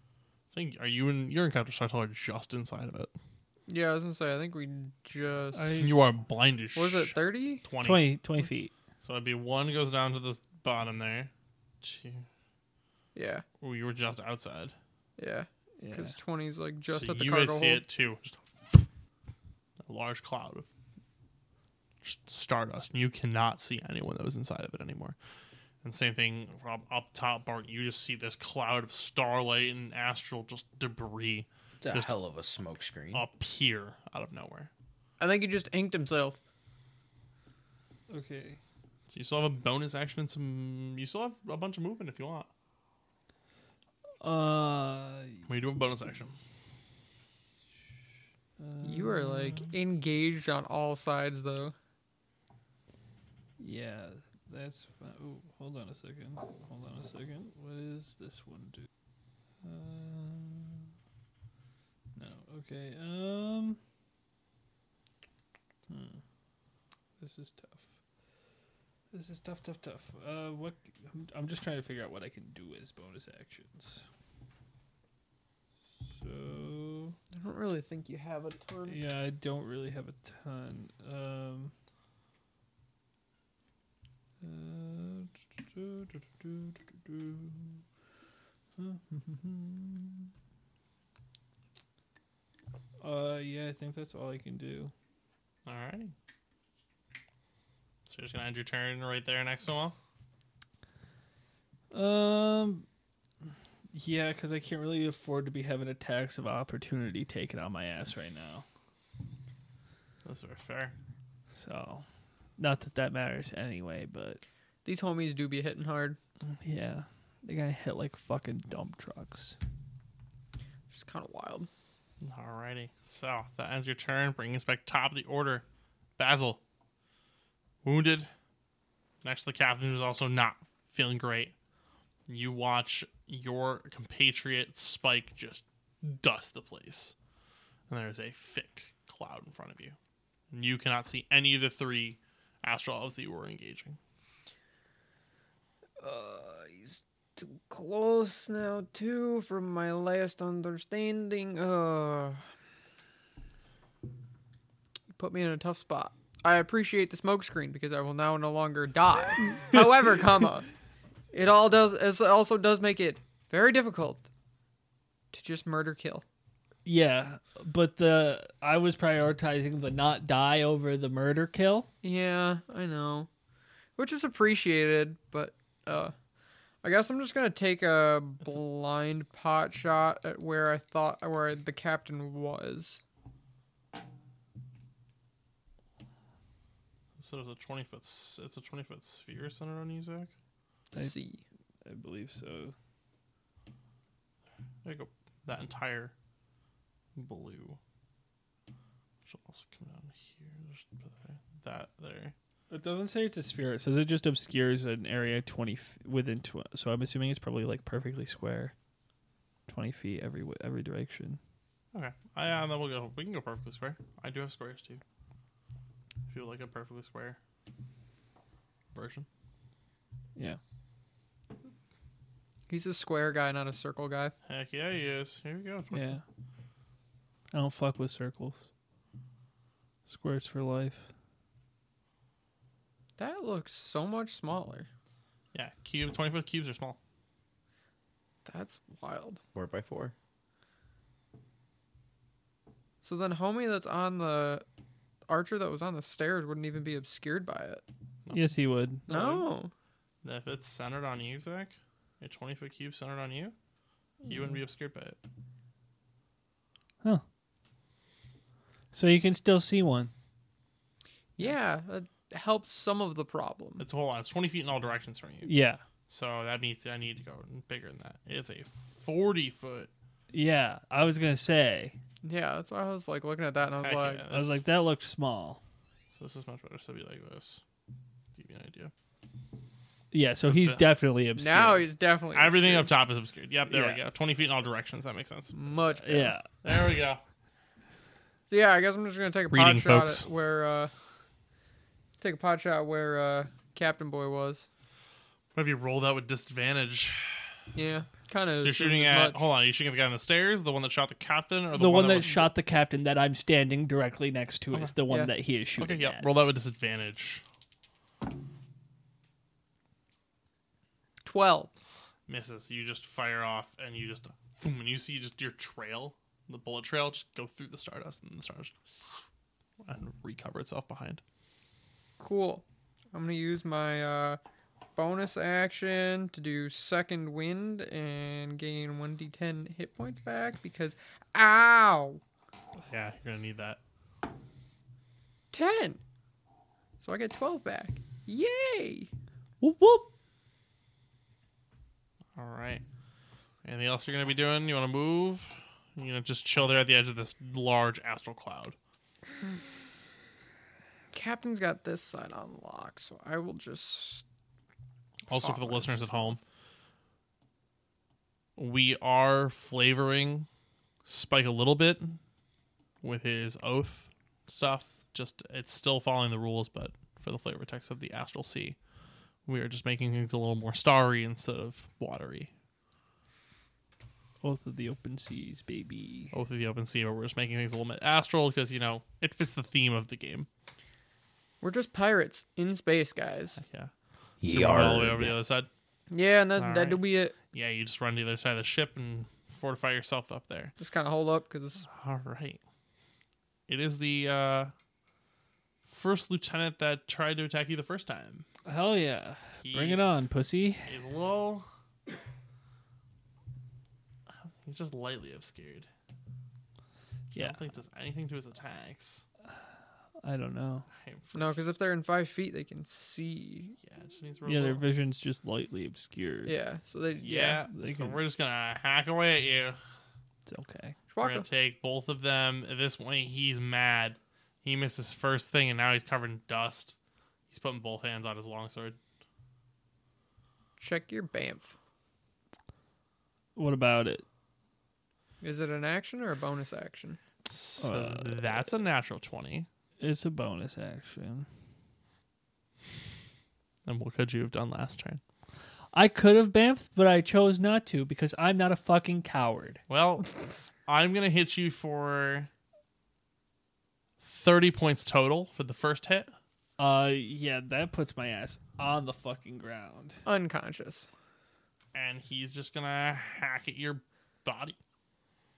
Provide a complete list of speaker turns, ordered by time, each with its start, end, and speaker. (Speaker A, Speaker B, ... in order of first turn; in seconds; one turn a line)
Speaker A: 0.5-3.1
Speaker B: 3.7-5.9
Speaker C: 5.5-6.0
Speaker A: 5.8-8.1
Speaker B: 6.8-7.7
Speaker C: 7.8-8.7
Speaker A: 9.0-11.3
Speaker A: 11.8-12.3
Speaker B: 13.2-13.4
Speaker A: 13.6-14.8
Speaker B: 15.2-17.8
Speaker C: 15.8-16.1
Speaker A: 16.9-18.9
Speaker A: 19.9-20.7
Speaker A: 22.0-25.2
Speaker A: 25.8-32.1
Speaker D: 31.8-33.2
Speaker A: 33.1-34.7
Speaker B: 35.2-36.4
Speaker C: 38.1-38.6
Speaker A: 39.1-42.5
Speaker C: 44.2-45.5
Speaker A: 45.5-46.4
Speaker C: 48.6-49.7
Speaker B: 48.8-51.8
Speaker C: 53.6-58.9
Speaker C: 59.6-60.9
Speaker C: 62.2-63.8
Speaker C: 65.9-66.2
Speaker C: 67.2-67.9
Speaker C: 69.1-74.0
Speaker C: 76.1-77.2
Speaker B: 77.3-79.0
Speaker C: 78.9-81.7
Speaker C: 84.4-87.8
Speaker C: 88.8-90.3
Speaker C: 93.0-94.9
Speaker A: 95.7-96.1
Speaker A: 98.1-100.0
Speaker C: 101.9-102.9
Speaker C: 103.9-108.7
Speaker A: 110.2-111.0
Speaker C: 111.5-112.0
Speaker C: 112.6-114.4
Speaker B: 114.8-116.2
Speaker C: 116.5-119.6
Speaker B: 120.9-121.7
Speaker A: 122.2-125.7
Speaker A: 126.2-126.6
Speaker A: 127.8-128.3
Speaker A: 129.2-131.5
Speaker A: 132.3-137.2
Speaker A: 137.9-140.0
Speaker A: 140.5-144.0
Speaker B: 146.0-152.4
Speaker B: 155.2-160.7
Speaker B: 161.3-164.3
Speaker B: 165.3-166.2
Speaker C: 166.8-171.9
Speaker B: 172.0-173.3
Speaker B: 174.0-176.1
Speaker B: 176.8-183.0
Speaker A: 187.2-190.3
Speaker B: 190.9-191.4
Speaker C: 191.8-192.7
Speaker A: 194.8-196.1
Speaker A: 197.2-197.8
Speaker A: 199.2-202.3
Speaker C: 202.7-208.7
Speaker C: 209.7-211.4
Speaker A: 211.9-215.0
Speaker A: 216.3-217.4
Speaker A: 218.9-219.3
Speaker B: 222.7-224.3
Speaker A: 224.5-226.2
Speaker C: 225.9-226.2
Speaker C: 227.5-228.7
Speaker C: 230.1-231.1
Speaker B: 233.2-234.9
Speaker A: 235.5-237.0
Speaker B: 238.4-239.4
Speaker D: 239.5-240.1
Speaker B: 243.0-244.7
Speaker B: 245.3-247.8
Speaker A: 248.3-248.5
Speaker C: 248.3-249.1
Speaker A: 249.1-249.5
Speaker B: 249.1-249.7
Speaker A: 250.2-253.6
Speaker A: 254.2-255.2
Speaker C: 258.9-260.1
Speaker B: 261.4-263.9
Speaker A: 263.8-265.5
Speaker C: 265.5-265.8
Speaker A: 266.1-269.9
Speaker C: 270.3-272.0
Speaker B: 272.2-274.2
Speaker A: 273.8-274.6
Speaker C: 274.3-275.6
Speaker A: 276.1-277.6
Speaker A: 278.3-278.9
Speaker C: 280.1-281.9
Speaker A: 280.4-280.9
Speaker B: 281.4-282.9
Speaker A: 282.3-285.6
Speaker C: 283.7-284.0
Speaker B: 285.5-286.4
Speaker C: 285.9-286.5
Speaker A: 286.6-287.2
Speaker B: 288.5-290.9
Speaker A: 289.5-290.3
Speaker B: 292.2-294.7
Speaker A: 295.6-297.6
Speaker B: 297.8-299.5
Speaker A: 298.6-302.5
Speaker C: 301.7-306.3
Speaker A: 305.8-307.4
Speaker B: 311.2-311.7
Speaker A: 312.3-318.8
Speaker A: 319.8-321.2
Speaker B: 322.2-324.4
Speaker B: 324.9-332.2
Speaker A: 332.8-333.8
Speaker B: 335.5-336.0
Speaker B: 337.0-339.1
Speaker C: 339.6-340.1
Speaker A: 342.4-342.8
Speaker A: 343.6-348.8
Speaker B: 351.1-354.2
Speaker A: 355.3-356.4
Speaker B: 355.3-356.4
Speaker A: 358.6-360.5
Speaker A: 361.1-362.2
Speaker A: 363.0-368.8
Speaker A: 369.5-372.5
Speaker C: 374.4-376.3
Speaker A: 376.3-380.5
Speaker B: 381.6-383.6
Speaker A: 383.6-383.9
Speaker D: 384.4-385.4
Speaker A: 384.4-385.7
Speaker B: 386.1-387.4
Speaker A: 386.6-390.7
Speaker B: 390.8-391.9
Speaker A: 391.9-392.6
Speaker A: 393.7-394.7
Speaker A: 395.9-398.5
Speaker C: 398.6-400.9
Speaker A: 399.6-400.1
Speaker A: 400.9-401.7
Speaker A: 404.3-405.9
Speaker A: 407.3-409.2
Speaker C: 410.2-410.9
Speaker A: 410.9-411.6
Speaker B: 411.4-413.8
Speaker A: 413.8-414.8
Speaker C: 414.5-416.6
Speaker B: 416.5-417.6
Speaker A: 417.2-419.8
Speaker C: 417.7-418.2
Speaker C: 420.5-421.0
Speaker B: 421.1-421.5
Speaker A: 421.2-427.0
Speaker A: 427.5-429.0
Speaker B: 430.8-431.8
Speaker C: 433.6-434.2
Speaker B: 435.4-437.2
Speaker A: 437.4-439.7
Speaker C: 437.8-438.6
Speaker C: 440.0-441.5
Speaker A: 443.9-445.2
Speaker C: 445.9-449.8
Speaker A: 449.9-452.5
Speaker A: 454.2-456.3
Speaker C: 456.8-460.2
Speaker B: 460.2-461.1
Speaker A: 461.9-464.8